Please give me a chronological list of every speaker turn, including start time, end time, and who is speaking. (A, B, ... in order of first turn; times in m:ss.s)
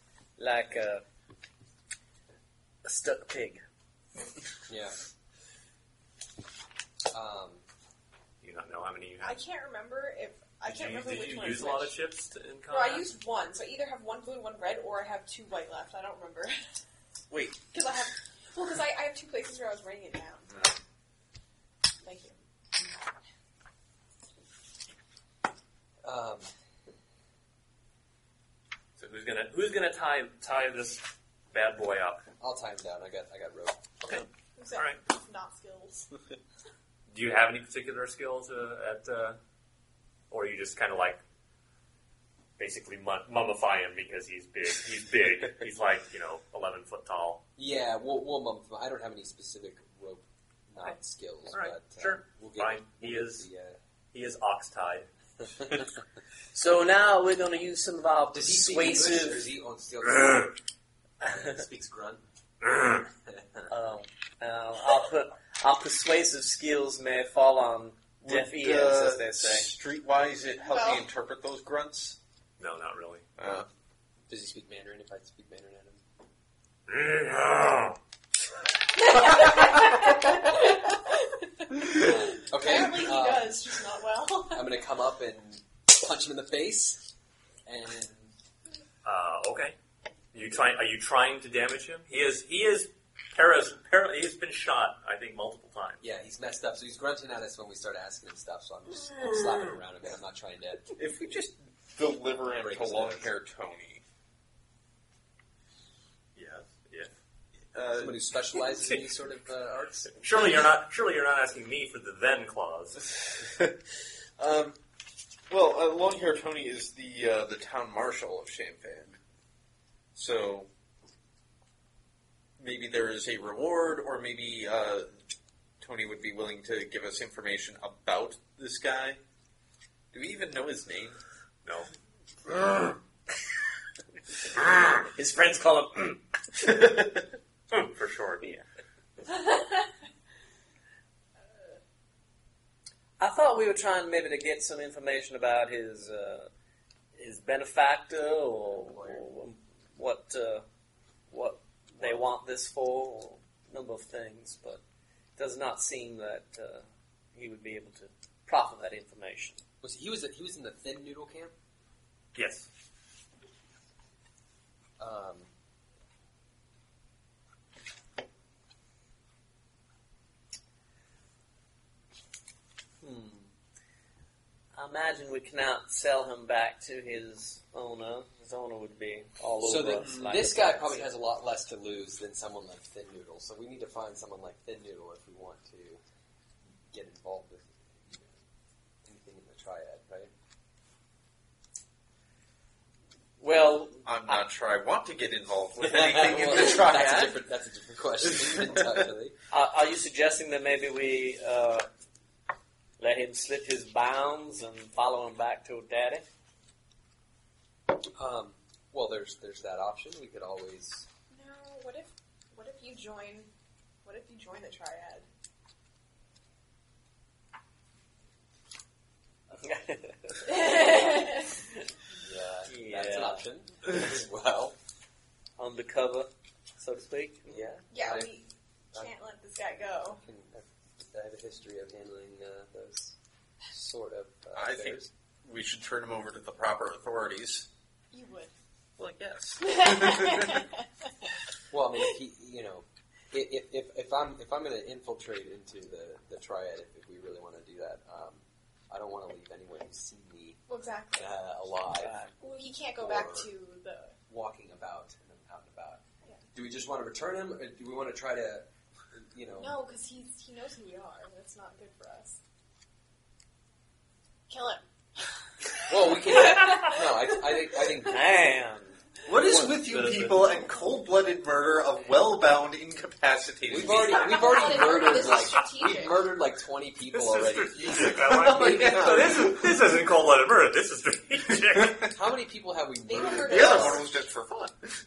0:00.4-0:01.0 A
0:02.8-0:03.6 A
0:04.7-0:04.9 B
0:07.1-0:07.6 B
0:08.4-0:09.4 C
0:09.2-0:11.9 D
0:10.6-0:13.1 C
0:12.7-0:16.6 D
0:17.3-0:17.6 E
0:17.7-0:20.7 D
0:22.0-0:22.3 D
0:26.0-0:26.5 B
0:29.0-0:32.2 C
0:32.4-0:33.9 B
0:34.0-0:35.0 C
0:34.6-0:36.1 D
0:37.1-0:39.4 C
0:40.3-0:41.2 C
0:42.6-0:47.4 C
0:47.6-0:53.8 B
0:51.5-0:53.4 C
0:54.1-0:55.1 C
0:56.5-0:59.4 A
0:58.3-1:00.5 B
1:01.2-1:02.2 B
1:03.2-1:03.7 B
1:03.7-1:09.7 A
1:08.2-1:12.2 E
1:10.6-1:11.1 D
1:12.6-1:13.2 C
1:13.4-1:13.7 E
1:14.3-1:16.0 B
1:16.9-1:18.0 C
1:19.0-1:24.7 D
1:21.9-1:23.6 B
1:24.5-1:27.1 B
1:27.6-1:28.3 B
1:29.0-1:29.8 C
1:30.3-1:36.0 C
1:36.0-1:41.0 B
1:41.0-1:44.0 E
1:42.5-1:43.3 B
1:46.4-1:47.1 C
1:47.7-1:48.2 E
1:47.9-1:50.1 B
1:50.1-1:53.0 C
1:53.4-1:53.7 E
1:54.4-1:54.8 E
1:55.5-1:59.2 E
2:00.1-2:00.7 E
2:02.6-2:05.1 E
2:05.8-2:09.2 E
2:10.1-2:11.2 E
2:15.1-2:16.2 A
2:17.7-2:18.5 C
2:23.2-2:26.5 A
2:27.2-2:30.7 A
2:28.7-2:29.2 B
2:31.3-2:34.8 A
2:35.4-2:39.6 A
2:39.8-2:41.5 B
2:42.3-2:42.7 C
2:45.0-2:45.5 B
2:53.0-2:53.3 A
2:54.7-3:01.1 A
2:59.6-3:06.0 B
3:06.9-3:08.4 B
3:09.0-3:10.3 B
3:13.4-3:14.4 A
3:14.0-3:17.3 E
3:15.8-3:19.4 B
3:16.4-3:17.3 A
3:19.5-3:21.9 A
3:23.0-3:26.2 A
3:28.2-3:31.1 B
3:31.3-3:33.5 D
3:34.0-3:35.3 D
3:39.6-3:41.2 A
3:40.4-3:41.5 D
3:42.2-3:44.8 B
3:42.7-3:43.4 A
3:45.6-3:47.8 A
3:47.5-3:48.3 B
3:47.9-3:50.2 D
3:50.2-3:53.2 B
3:53.7-3:55.1 B
3:54.6-3:57.7 E
3:58.1-3:58.5 D
3:59.0-4:00.6 E
3:59.6-4:00.8 D
4:01.7-4:10.6 B
4:10.7-4:11.3 D
4:11.2-4:12.3 B
4:12.0-4:12.3 A
4:12.4-4:14.2 D
4:13.0-4:13.5 B
4:14.3-4:16.0 B
4:16.5-4:19.8 B
4:19.6-4:22.4 D
4:24.5-4:27.6 D
4:25.9-4:28.2 B
4:28.1-4:29.0 A
4:29.3-4:34.5 E
4:29.4-4:29.8 B
4:29.9-4:30.4 C
4:33.7-4:39.2 B
4:33.8-4:36.2 D
4:37.1-4:42.1 C
4:37.9-4:39.8 E
4:41.7-4:42.1 E
4:42.1-4:44.0 B
4:43.1-4:44.1 D
4:43.3-4:44.9 E